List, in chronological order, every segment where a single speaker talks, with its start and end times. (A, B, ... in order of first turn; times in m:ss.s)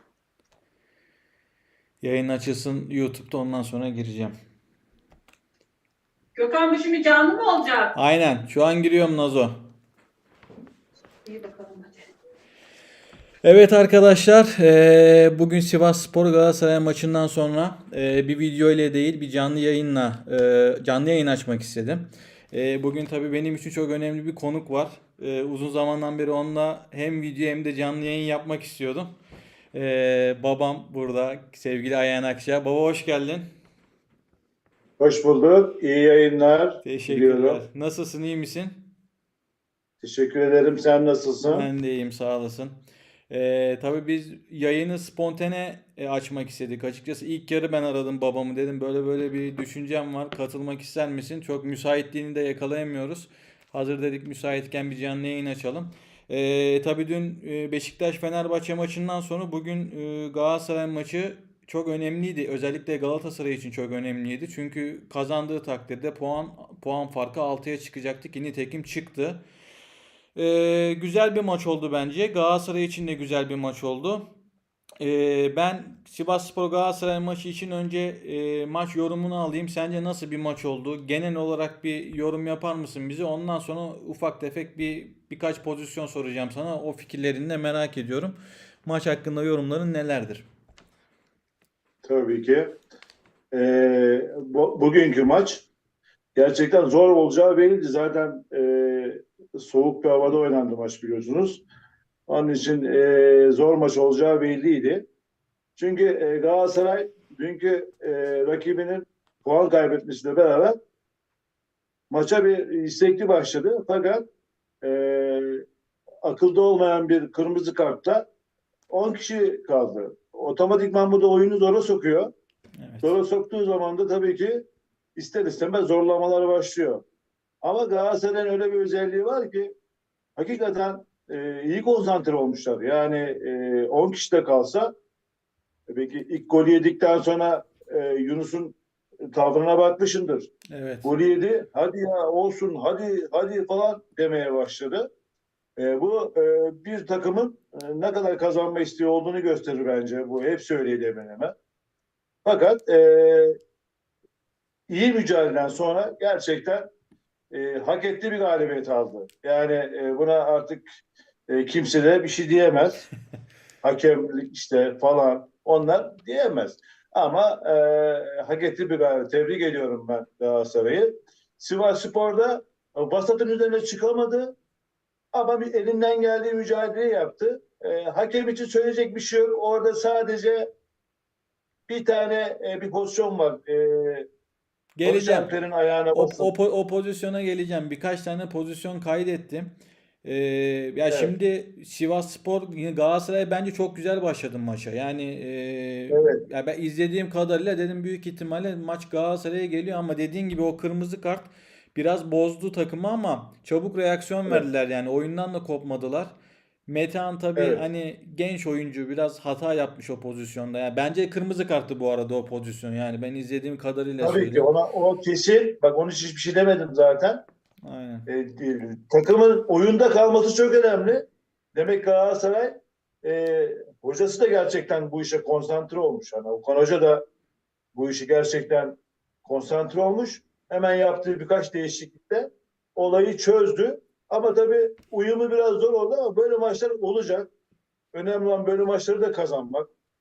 0:02.0-0:04.3 A
0:06.4-0:07.9 B
0:07.9-0:09.6 A
0:11.2-0:12.1 B
0:13.4-0:29.1 A
0:29.7-0:33.5 A
0:35.0-0:37.6 C
0:36.8-0:38.9 A
0:40.0-0:41.7 C
0:41.5-0:42.8 A
0:43.3-1:09.4 A
1:10.4-1:14.3 A
1:15.0-1:30.4 A
1:32.0-1:32.8 C
1:33.5-1:35.7 C
1:36.3-1:41.6 C
1:42.3-1:45.1 C
1:45.8-1:50.8 C
1:52.1-1:54.3 C
1:54.8-1:55.6 C
1:56.2-1:58.3 C
1:58.9-2:02.3 C
2:02.8-2:03.1 A
2:03.0-2:07.0 C
2:07.6-2:09.7 C
2:10.4-2:14.9 C
2:15.9-2:20.5 C
2:20.7-2:21.1 A
2:21.0-2:25.1 C
2:25.8-2:31.5 C
2:32.4-2:33.6 C
2:34.9-2:36.9 C
2:37.5-2:40.8 C
2:41.5-2:43.0 C
2:43.8-2:54.6 C
2:55.3-3:00.7 C
3:01.9-3:04.3 C
3:05.0-3:05.5 A
3:05.0-3:06.5 C
3:06.1-3:26.3 A
3:16.1-3:16.4 C
3:26.9-3:34.7 A
3:27.6-3:27.8 C
3:34.2-3:37.4 C
3:37.8-3:38.3 A
3:38.3-3:47.2 C
3:47.9-3:57.5 C
3:58.1-3:59.9 C